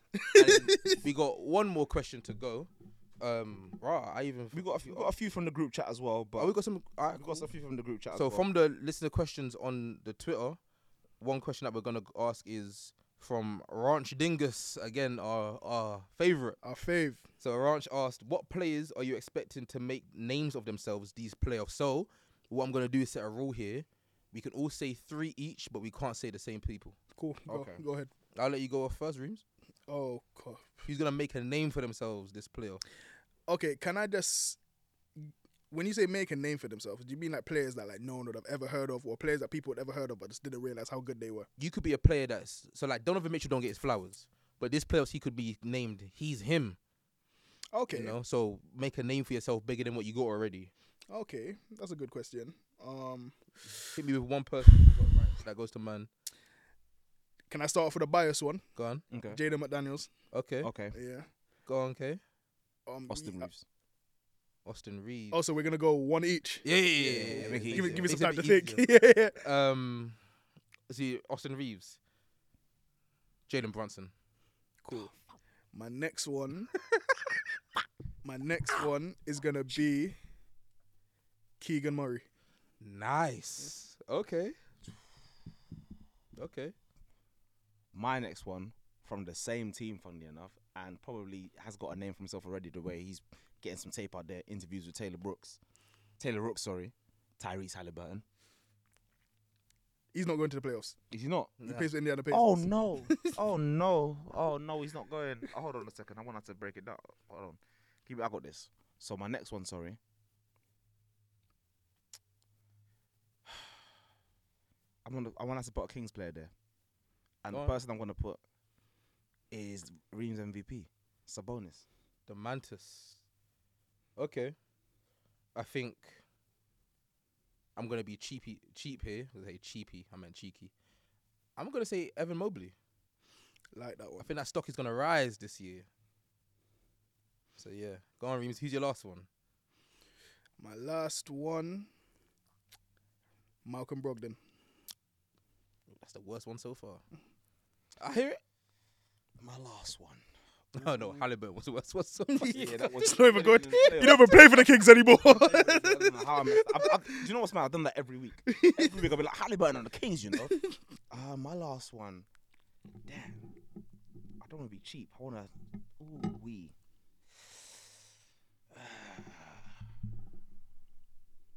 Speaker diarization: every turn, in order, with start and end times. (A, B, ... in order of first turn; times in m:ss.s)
0:00.2-0:01.0 A
0:00.3-0:00.7 B
0:00.4-0:02.7 C
0:03.2-0:05.1 C
0:04.5-0:06.5 B
0:06.4-0:07.5 C
0:07.1-0:08.4 B
0:08.1-0:10.6 C
0:11.2-0:16.6 C
0:16.6-0:17.2 A
0:17.4-0:27.0 C
0:27.2-0:28.1 A
0:27.5-0:27.8 B
0:28.3-0:29.4 C
0:29.9-0:30.7 A
0:30.8-0:32.8 C
0:33.5-0:34.6 A
0:35.2-0:41.5 A
0:41.6-0:46.8 C
0:47.7-0:48.1 A
0:47.9-0:50.7 C
0:51.1-0:53.4 A
0:53.9-0:56.1 C
0:57.5-0:58.6 A
0:58.8-0:59.0 C
0:59.1-0:59.4 B
0:59.3-1:00.1 A
1:00.3-1:00.7 C
1:00.6-1:00.9 B
1:00.9-1:01.2 A
1:01.7-1:02.2 C
1:02.9-1:03.5 A
1:03.1-1:03.6 B
1:04.6-1:05.4 C
1:05.3-1:09.4 A
1:06.6-1:08.8 C
1:07.1-1:08.2 B
1:09.4-1:10.2 C
1:10.9-1:12.0 C
1:13.5-1:14.1 C
1:14.8-1:15.1 A
1:15.7-1:16.7 A
1:18.2-1:20.1 A
1:21.6-1:22.2 A
1:22.8-1:24.5 C
1:26.4-1:26.7 C
1:27.9-1:35.6 B
1:36.2-1:38.2 B
1:40.1-1:41.0 A
1:41.1-1:41.6 B
1:41.6-1:41.9 C
1:41.6-1:43.3 A
1:42.3-1:50.0 B
1:55.0-1:56.5 B
1:57.4-1:58.4 B
1:57.5-1:57.8 C
1:59.5-2:01.8 B
2:02.3-2:03.2 C
2:04.2-2:04.6 C
2:05.5-2:06.2 C
2:07.8-2:10.7 C
2:11.6-2:12.7 C
2:13.7-2:14.3 A
2:14.2-2:15.8 C
2:17.6-2:19.3 C
2:20.6-2:21.9 A
2:23.6-2:24.4 A
2:25.9-2:27.0 C
2:28.0-2:28.4 C
2:29.4-2:30.2 B
2:30.7-2:32.9 C
2:32.3-2:37.3 A
2:32.5-2:40.5 B
2:38.5-2:39.0 A
2:41.1-2:42.2 B
2:43.0-2:43.4 B
2:44.4-2:46.7 B
2:48.7-2:49.7 B